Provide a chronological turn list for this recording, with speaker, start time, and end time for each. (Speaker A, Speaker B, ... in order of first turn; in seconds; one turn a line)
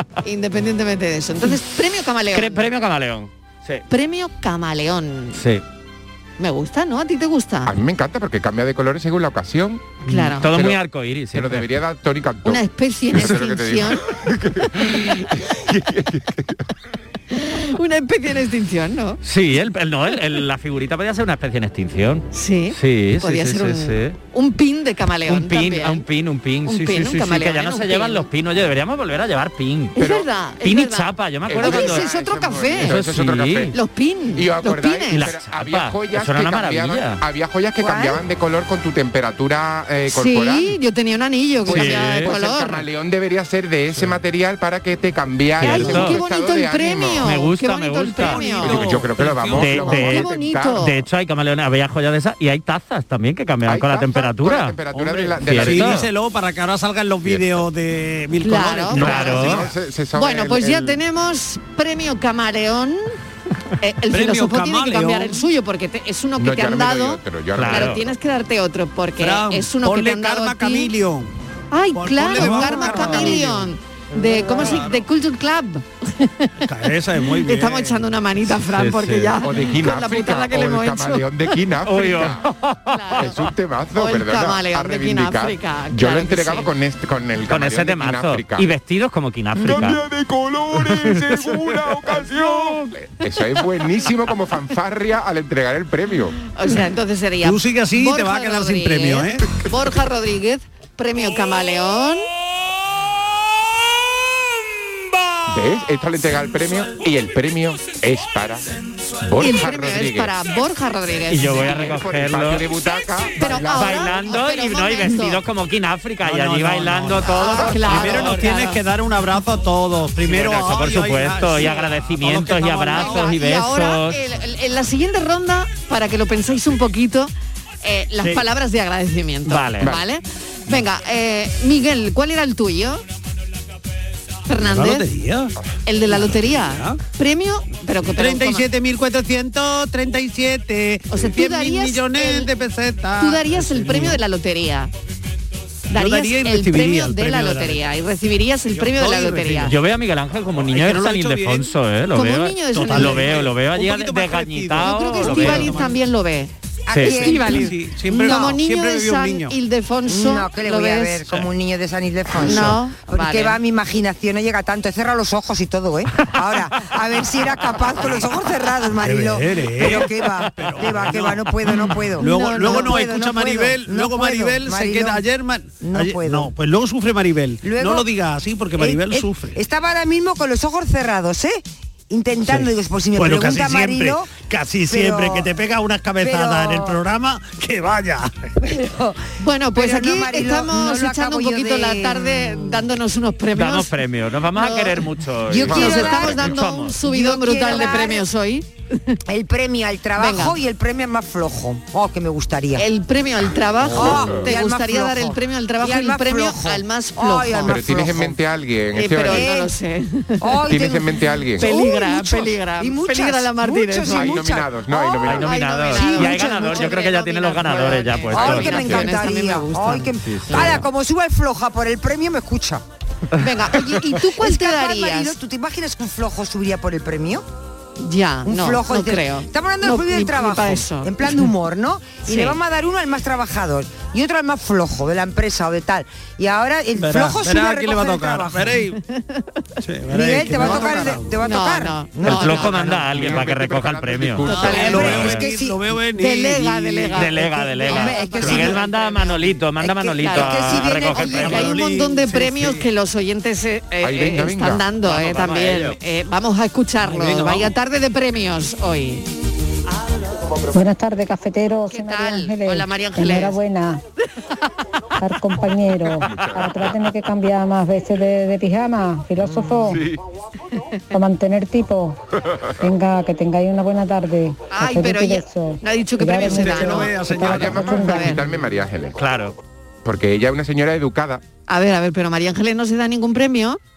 Speaker A: 0.2-2.7
Speaker B: 2.3-3.9
Speaker A: 3.9-5.4
Speaker B: 5.3-5.6
Speaker A: 6.4-7.8
Speaker C: 7.7-10.8
Speaker A: 10.1-10.5
Speaker B: 10.1-11.7
Speaker C: 11.3-16.6
Speaker A: 12.4-14.0
Speaker A: 17.3-19.2
Speaker B: 19.2-24.2
Speaker A: 22.3-26.1
Speaker B: 25.3-30.0
Speaker A: 26.7-28.3
Speaker A: 30.0-33.0
Speaker C: 30.0-30.3
Speaker B: 30.6-32.1
Speaker C: 31.5-33.8
Speaker B: 32.8-33.7
Speaker A: 33.7-35.3
Speaker C: 34.4-40.8
Speaker B: 35.1-37.2
Speaker D: 37.8-38.2
Speaker A: 40.1-42.9
Speaker B: 41.7-42.3
Speaker C: 41.7-47.3
Speaker B: 45.6-46.2
Speaker A: 45.6-49.0
Speaker B: 47.2-48.9
Speaker E: 48.2-49.9
Speaker C: 48.6-50.9
Speaker B: 49.5-50.3
Speaker A: 49.7-50.9
Speaker B: 50.8-54.8
Speaker C: 53.6-56.1
Speaker E: 54.9-59.5
Speaker B: 55.4-56.0
Speaker C: 57.2-57.7
Speaker A: 58.4-63.0
Speaker B: 58.9-59.7
Speaker C: 59.0-61.0
Speaker A: 63.8-70.9
Speaker E: 64.1-65.4
Speaker C: 66.4-68.1
Speaker B: 67.5-68.0
Speaker E: 69.2-71.3
Speaker A: 71.7-76.5
Speaker E: 71.9-75.0
Speaker B: 72.4-73.4
Speaker E: 76.6-78.1
Speaker A: 77.4-81.3
Speaker B: 78.5-79.4
Speaker C: 79.4-82.4
Speaker B: 81.8-83.3
Speaker A: 82.9-86.7
Speaker C: 83.2-88.7
Speaker B: 87.5-90.0
Speaker C: 89.5-96.4
Speaker B: 90.9-92.1
Speaker A: 96.5-102.2
Speaker E: 97.4-99.5
Speaker C: 105.5-108.7
Speaker C: 109.2-110.4
Speaker A: 109.4-111.9
Speaker B: 111.3-112.7
Speaker C: 111.6-114.2
Speaker A: 113.4-115.4
Speaker B: 113.7-118.4
Speaker E: 116.2-123.3
Speaker A: 117.3-118.8
Speaker B: 120.2-124.2
Speaker A: 122.9-127.3
Speaker A: 127.8-133.0
Speaker E: 128.2-128.4
Speaker B: 129.5-129.9
Speaker A: 134.5-135.1
Speaker E: 134.6-135.5
Speaker A: 135.9-138.7
Speaker E: 136.1-137.0
Speaker E: 138.1-144.2
Speaker A: 141.1-142.5
Speaker A: 143.2-144.9
Speaker E: 145.9-147.9
Speaker A: 145.9-149.7
Speaker E: 148.7-149.7
Speaker B: 149.7-155.7
Speaker E: 150.6-151.7
Speaker A: 152.1-153.4
Speaker E: 152.7-156.0
Speaker A: 154.8-156.5
Speaker D: 156.9-158.6
Speaker B: 156.9-157.2
Speaker A: 157.1-161.3
Speaker E: 157.1-159.5
Speaker D: 160.1-175.2
Speaker A: 162.4-163.6
Speaker E: 168.9-179.6
Speaker A: 172.2-173.0
Speaker D: 175.8-176.5
Speaker D: 177.6-178.1
Speaker D: 178.8-184.3
Speaker E: 182.4-188.5
Speaker D: 184.9-185.5
Speaker D: 186.2-187.0
Speaker D: 188.6-192.8
Speaker A: 189.4-193.9
Speaker B: 193.5-197.0
Speaker A: 194.6-195.1
Speaker D: 195.5-196.4
Speaker C: 195.6-196.6
Speaker A: 195.6-199.2
Speaker D: 197.0-198.3
Speaker D: 199.3-202.9
Speaker A: 200.2-200.6
Speaker A: 202.8-207.9
Speaker C: 203.8-204.6
Speaker D: 203.8-208.4
Speaker C: 207.6-209.5
Speaker A: 208.9-210.6
Speaker D: 209.2-209.7
Speaker D: 210.4-215.2
Speaker C: 210.7-211.7
Speaker A: 211.6-220.7
Speaker C: 214.1-215.7
Speaker B: 215.2-219.3
Speaker D: 215.9-217.0
Speaker D: 218.3-222.8
Speaker B: 220.2-220.8
Speaker A: 223.4-225.4
Speaker D: 224.2-227.4
Speaker A: 228.0-231.5
Speaker D: 228.4-238.8
Speaker A: 232.3-232.6
Speaker E: 237.0-239.0
Speaker A: 239.1-239.4
Speaker E: 239.8-241.4
Speaker D: 240.1-242.7
Speaker A: 241.4-243.3
Speaker B: 242.2-245.5
Speaker C: 243.0-245.3
Speaker A: 244.4-245.0
Speaker E: 244.6-247.5
Speaker D: 244.7-245.8
Speaker A: 246.2-249.1
Speaker B: 247.2-251.7
Speaker D: 247.8-249.2
Speaker C: 248.4-248.7
Speaker D: 249.8-251.7
Speaker A: 250.2-250.8
Speaker E: 251.1-252.9
Speaker A: 251.3-259.3
Speaker C: 254.0-254.9
Speaker B: 255.0-256.0
Speaker E: 257.0-257.7
Speaker F: 260.7-264.0
Speaker A: 261.9-263.6
Speaker F: 265.2-270.1
Speaker C: 266.2-267.0
Speaker C: 269.5-270.2
Speaker F: 271.1-272.2
Speaker F: 272.8-278.3
Speaker A: 274.7-278.4
Speaker E: 276.4-278.4
Speaker C: 277.5-279.2
Speaker B: 279.2-279.5
Speaker C: 280.1-281.4
Speaker A: 281.7-283.8